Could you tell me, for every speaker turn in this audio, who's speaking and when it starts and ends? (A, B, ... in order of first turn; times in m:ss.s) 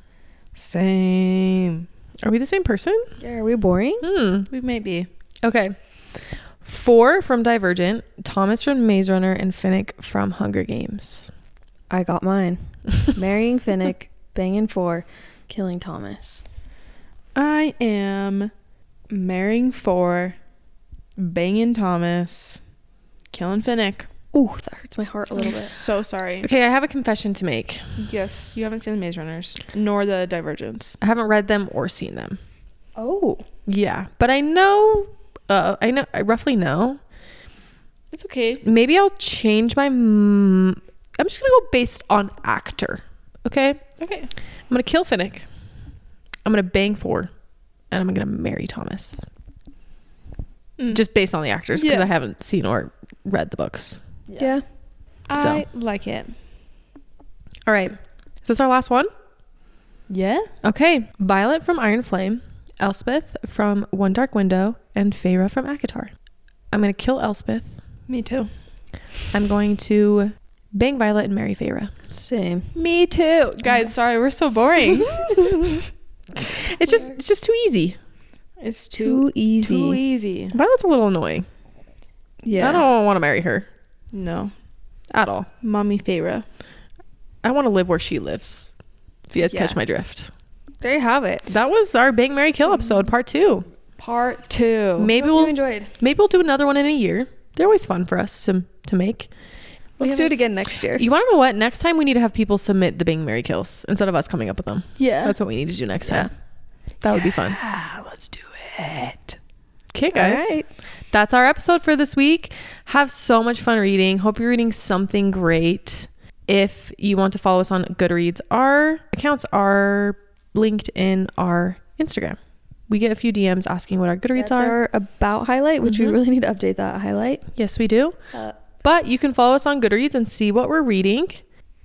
0:00.6-0:01.9 A
0:02.2-0:03.2 B
0:03.2-0:04.1 C
0:04.0-0:04.5 B
0:04.5-0:05.1 A
0:05.4-0:11.3 B
0:11.9-0:16.4 C
0:17.4-0:18.5 A
0:19.1-0:20.4 A
0:21.2-0:22.6 A
0:23.3-0:24.1 A
0:24.3-0:25.8 C
0:25.4-0:26.5 A
0:26.4-0:27.8 B
0:28.0-0:31.0 A
0:31.0-0:32.4 B
0:33.0-0:33.4 C
0:33.7-0:37.0 B
0:38.1-0:38.6 A
0:38.6-0:43.8 B
0:44.0-0:44.3 A
0:44.7-0:45.5 B
0:46.4-0:47.3 B
0:47.9-0:49.3 B
0:50.9-0:54.0 B
0:51.8-0:52.1 A
0:54.3-0:54.6 A
0:54.4-0:54.6 C
0:55.3-0:56.4 A
0:55.4-0:55.6 B
0:57.6-0:59.1 B
1:00.1-1:00.5 A
1:00.6-1:06.1 B
1:06.7-1:07.8 B
1:08.1-1:08.5 A
1:09.3-1:11.9 B
1:12.1-1:12.7 C
1:12.8-1:15.6 A
1:14.9-1:15.8 B
1:16.4-1:18.0 B
1:16.8-1:17.1 C
1:18.6-1:20.6 A
1:19.0-1:20.0 C
1:20.5-1:21.5 B
1:22.4-1:22.9 C
1:22.6-1:23.7 B
1:24.1-1:24.5 A
1:25.1-1:25.5 B
1:25.6-1:26.4 A
1:27.4-1:28.7 B
1:29.3-1:30.3 B
1:29.4-1:29.8 C
1:30.8-1:31.5 C
1:31.5-1:33.7 B
1:34.0-1:35.1 A
1:35.0-1:39.3 B
1:35.1-1:35.9 C
1:40.0-1:41.0 C
1:40.9-1:46.3 B
1:45.0-1:45.4 A
1:46.1-1:46.3 C
1:47.0-1:47.6 B
1:47.1-1:49.4 A
1:49.9-2:02.4 B
1:50.1-1:50.7 C
2:02.9-2:04.8 B
2:04.4-2:07.4 C
2:05.8-2:06.2 B
2:07.6-2:08.2 B
2:08.8-2:11.4 B